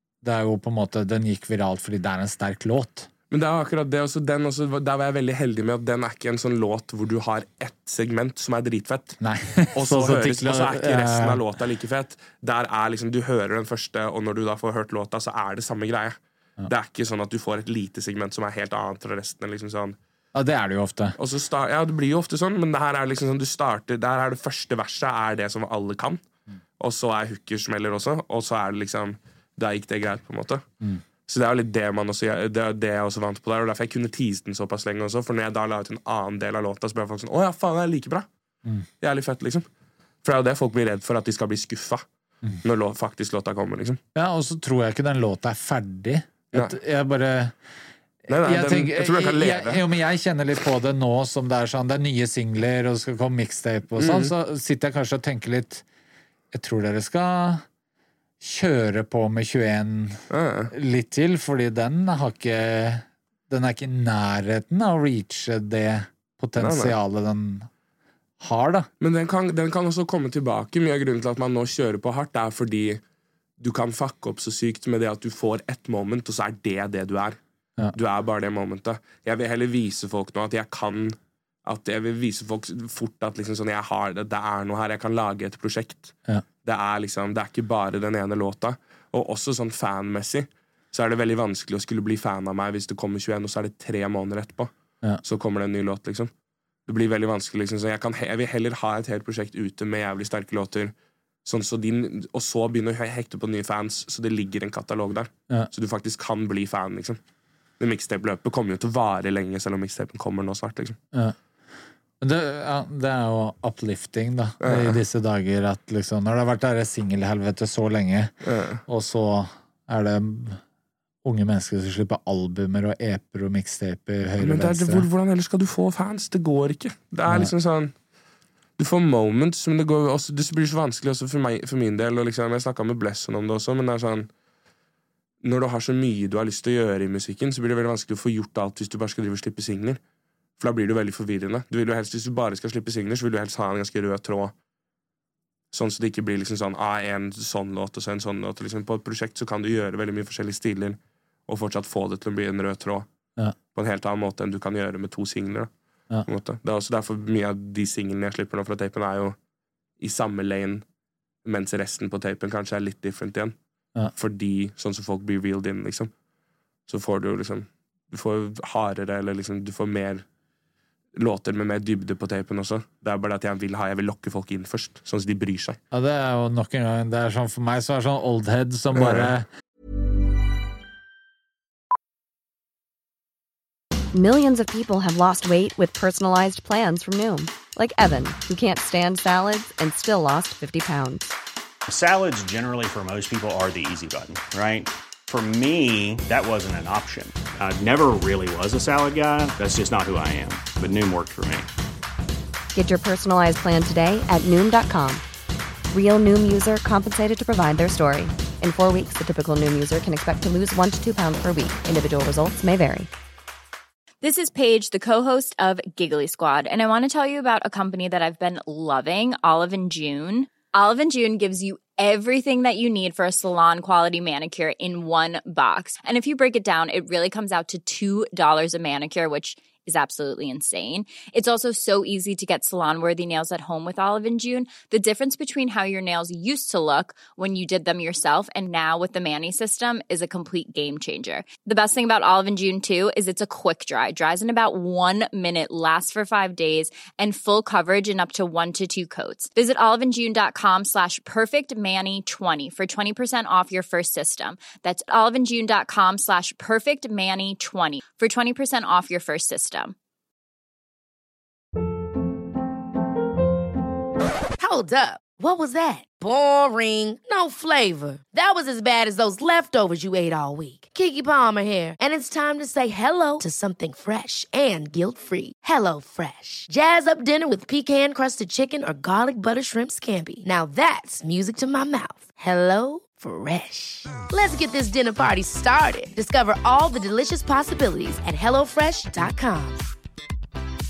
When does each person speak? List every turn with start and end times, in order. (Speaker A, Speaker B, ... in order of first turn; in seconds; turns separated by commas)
Speaker A: 0.2-3.1, Speaker B: 3.3-9.2, Speaker A: 9.2-11.4, Speaker B: 9.7-20.0, Speaker A: 20.3-21.2, Speaker B: 21.2-26.2, Speaker B: 26.8-30.6, Speaker B: 31.3-38.3, Speaker B: 39.0-39.7, Speaker B: 40.2-42.0, Speaker B: 42.6-44.0, Speaker A: 44.1-47.5, Speaker A: 48.3-55.8, Speaker B: 48.3-49.9, Speaker B: 54.0-54.3, Speaker A: 56.5-57.6, Speaker A: 58.4-67.7, Speaker B: 60.3-60.7, Speaker B: 66.6-66.9, Speaker A: 68.4-68.9, Speaker B: 69.0-73.0, Speaker B: 73.6-77.4, Speaker B: 77.9-94.7, Speaker B: 95.2-96.3, Speaker B: 96.8-107.2, Speaker B: 107.8-111.0, Speaker A: 112.2-118.3, Speaker B: 114.6-115.0, Speaker B: 118.4-118.8, Speaker A: 118.9-120.6, Speaker A: 121.2-125.0, Speaker B: 124.4-127.9, Speaker A: 127.3-127.5, Speaker B: 128.8-134.3, Speaker B: 135.4-140.0, Speaker B: 140.6-144.5, Speaker B: 145.7-153.1, Speaker B: 153.7-155.7, Speaker B: 156.2-159.4, Speaker B: 160.0-160.8, Speaker B: 161.4-163.6, Speaker B: 164.1-166.1, Speaker B: 166.9-170.2, Speaker B: 171.1-175.8, Speaker A: 175.9-179.4, Speaker B: 178.9-179.3, Speaker C: 184.1-191.4, Speaker D: 191.9-201.7, Speaker C: 202.7-205.2, Speaker C: 205.9-213.1, Speaker E: 214.2-259.9, Speaker F: 264.6-289.8